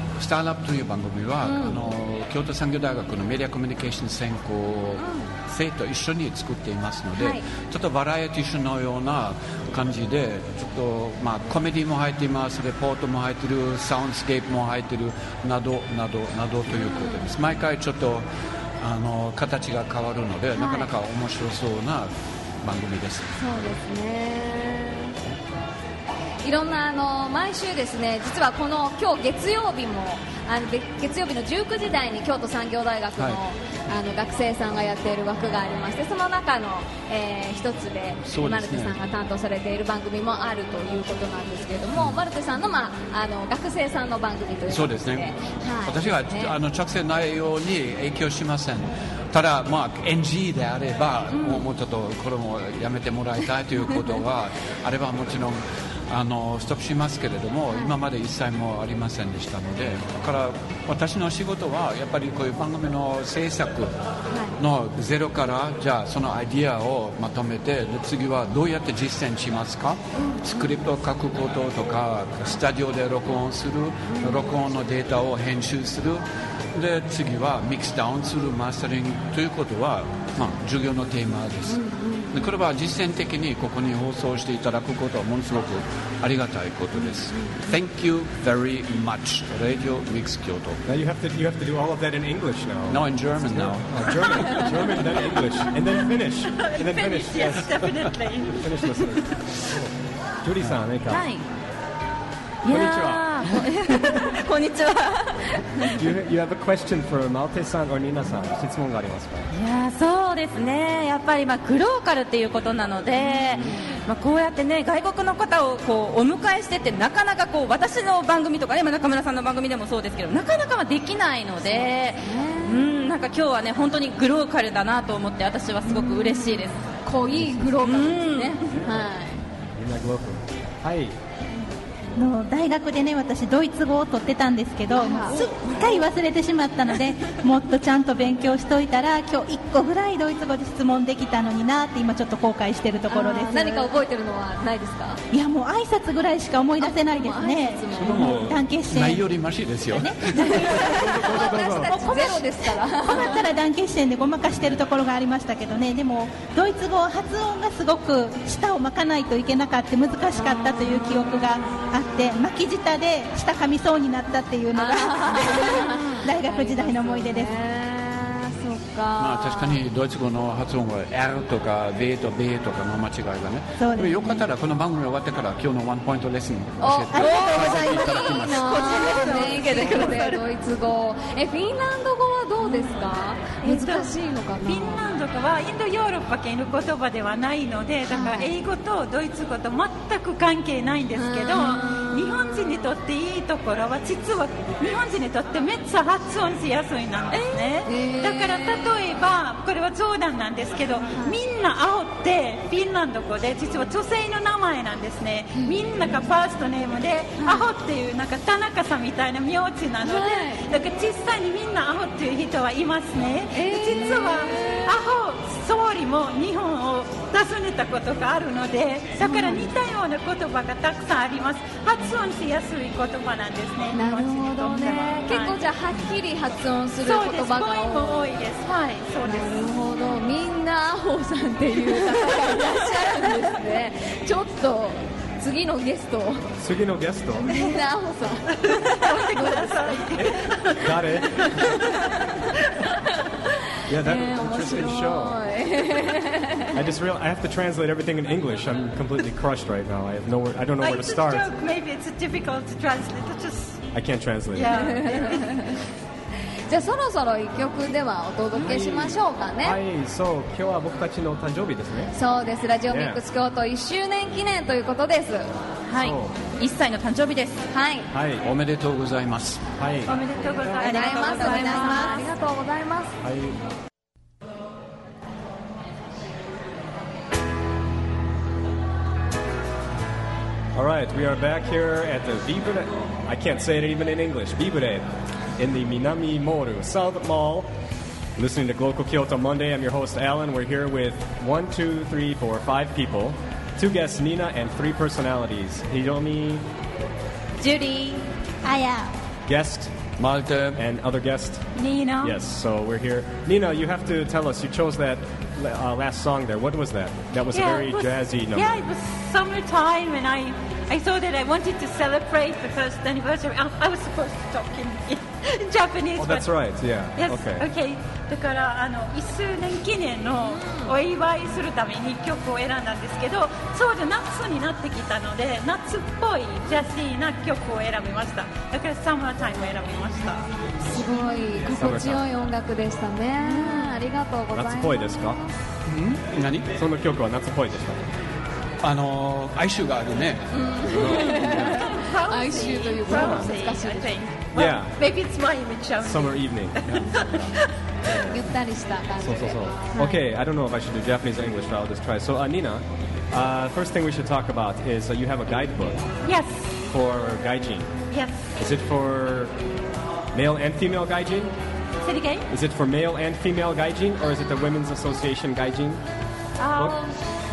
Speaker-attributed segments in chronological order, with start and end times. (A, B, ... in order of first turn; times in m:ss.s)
0:00.2-0:18.2 A
0:01.4-0:01.8 B
0:05.0-0:05.3 B
0:07.2-0:07.4 B
0:16.7-0:17.2 B
0:18.8-0:23.7 A
0:20.5-0:20.9 B
0:23.4-0:25.2 B
0:26.4-0:46.6 B
0:38.2-0:39.0 A
0:44.7-0:45.3 A
0:45.8-1:03.9 A
1:04.3-1:04.6 B
1:04.6-1:30.8 A
1:10.2-1:10.7 B
1:14.1-1:14.5 B
1:21.7-1:22.5 B
1:26.9-1:27.6 B
1:30.8-1:37.7 C
1:32.9-1:34.9 A
1:36.6-1:39.2 D
1:38.5-1:39.9 C
1:40.4-1:41.3 C
1:41.1-1:41.4 E
1:42.6-1:46.1 E
1:42.7-1:44.2 C
1:45.9-1:49.5 C
1:49.5-2:06.8 E
1:53.5-1:53.8 B
2:01.6-2:02.8 B
2:05.9-2:09.4 B
2:07.8-2:08.7 E
2:08.7-2:09.0 C
2:09.8-2:11.2 C
2:12.1-2:23.9 F
2:14.9-2:15.4 B
2:23.1-2:25.2 B
2:25.3-2:29.4 F
2:26.8-2:28.4 B
2:28.0-2:30.7 A
2:29.9-2:47.5 F
2:30.3-2:33.5 B
2:30.7-2:31.9 C
2:40.4-2:41.1 B
2:44.7-2:49.8 B
2:49.2-2:59.0 A
2:53.8-2:54.4 F
2:56.8-3:05.0 B
2:57.2-2:58.3 F
2:57.2-3:00.4 E
3:03.6-3:45.7 D
3:08.1-3:08.5 B
3:11.2-3:12.8 B
3:17.3-3:17.7 E
3:17.8-3:18.9 B
3:30.0-3:30.6 B
3:33.5-3:35.0 B
3:39.2-3:39.6 B
3:43.9-3:48.3 B
3:47.0-3:49.8 D
3:49.2-3:56.5 B
3:56.6-3:57.5 C
3:57.4-4:00.0 B
3:58.6-4:01.8 D
4:00.1-4:01.7 C
4:03.9-4:05.4 C
4:03.9-4:06.8 B
4:06.7-4:11.5 C
4:10.8-4:13.8 D
4:13.9-4:14.9 C
4:14.5-4:15.7 D
4:14.8-4:15.8 B
4:16.7-4:19.8 B
4:18.5-4:22.1 C
4:22.1-4:25.5 B
4:22.9-4:23.2 C
4:25.9-4:27.6 E
4:26.0-4:26.3 C
4:27.7-4:28.1 B
4:28.1-4:28.4 C
4:28.4-4:29.7 A
4:29.8-4:30.2 C
4:30.2-4:31.9 D
4:30.2-4:32.2 E
4:30.8-4:32.1 F
4:30.8-4:33.1 B
4:33.2-4:33.6 C
4:40.7-4:45.0 C
4:45.6-4:47.7 C
4:48.4-4:56.6 C
4:57.6-4:58.2 E
4:58.6-4:59.1 F
4:59.4-4:59.9 C
5:00.2-5:00.8 A
5:00.7-5:01.6 C
5:01.8-5:02.4 D
5:02.2-5:08.8 C
5:07.5-5:16.5 D
5:16.2-5:17.7 C
5:17.2-5:30.5 D
5:20.4-5:20.9 B
5:30.8-5:35.5 B
5:31.6-5:32.2 C
5:34.5-5:35.4 C
5:35.9-5:36.7 A
5:36.7-5:38.1 C
5:38.8-5:41.8 A
5:40.5-5:44.1 B
5:40.9-5:41.7 C
5:41.2-5:47.7 D
5:43.1-5:43.5 C
5:44.5-5:45.0 C
5:46.0-5:47.2 C
5:46.8-5:47.1 A
5:48.0-5:48.4 C
5:48.2-5:50.2 B
5:49.2-5:56.0 C
5:56.2-5:56.7 D
5:56.8-5:57.9 C
5:58.1-5:58.5 D
5:58.6-5:59.5 C
6:00.3-6:01.5 C
6:02.0-6:02.5 D
6:02.5-6:06.0 C
6:06.6-6:07.2 D